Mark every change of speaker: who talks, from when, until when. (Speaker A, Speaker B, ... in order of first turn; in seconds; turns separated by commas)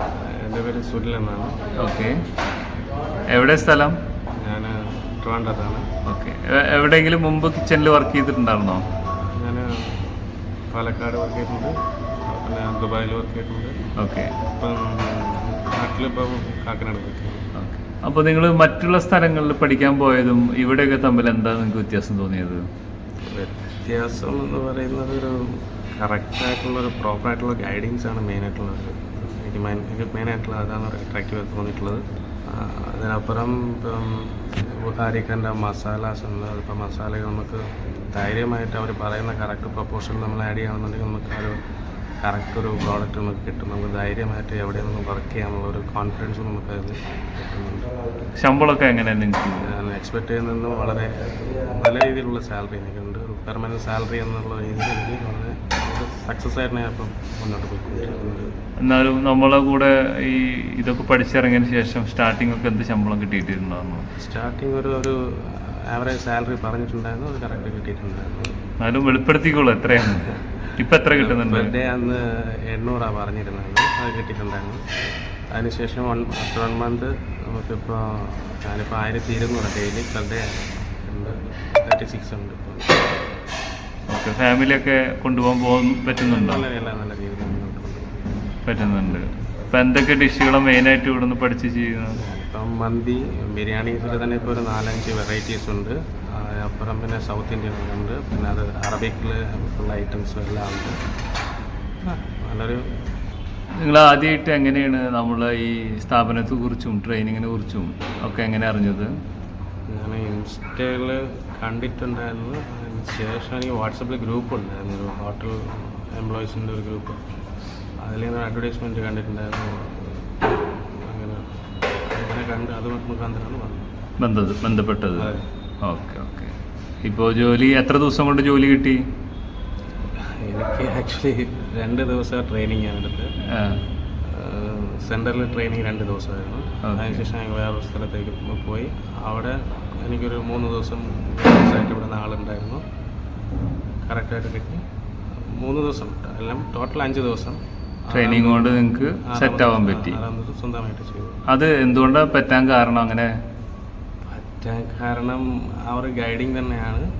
Speaker A: 0.2-1.6, Speaker B: 1.8-2.2, Speaker B: 3.3-4.0, Speaker A: 4.4-5.9, Speaker B: 6.0-8.8, Speaker A: 9.3-10.1, Speaker A: 10.7-13.8, Speaker B: 14.0-14.3, Speaker A: 14.6-17.5, Speaker B: 17.6-22.6, Speaker A: 23.3-41.6, Speaker A: 42.2-47.9, Speaker B: 48.4-49.7, Speaker A: 49.6-58.5, Speaker B: 58.8-64.0, Speaker A: 64.2-68.6, Speaker B: 68.8-71.7, Speaker A: 71.1-83.1, Speaker B: 84.1-86.6, Speaker A: 86.1-88.2, Speaker B: 88.6-92.2, Speaker A: 92.2-101.0, Speaker A: 102.0-102.9, Speaker B: 103.8-109.1, Speaker A: 109.9-117.2, Speaker A: 118.0-121.5, Speaker A: 122.1-123.9, Speaker B: 124.2-126.5, Speaker A: 125.2-125.5, Speaker B: 127.0-129.0, Speaker A: 130.2-133.3, Speaker B: 133.5-133.8, Speaker A: 134.2-142.8, Speaker B: 136.8-137.2, Speaker A: 144.1-144.8, Speaker A: 145.5-151.4, Speaker B: 148.1-150.2, Speaker B: 151.5-153.3, Speaker A: 154.3-157.1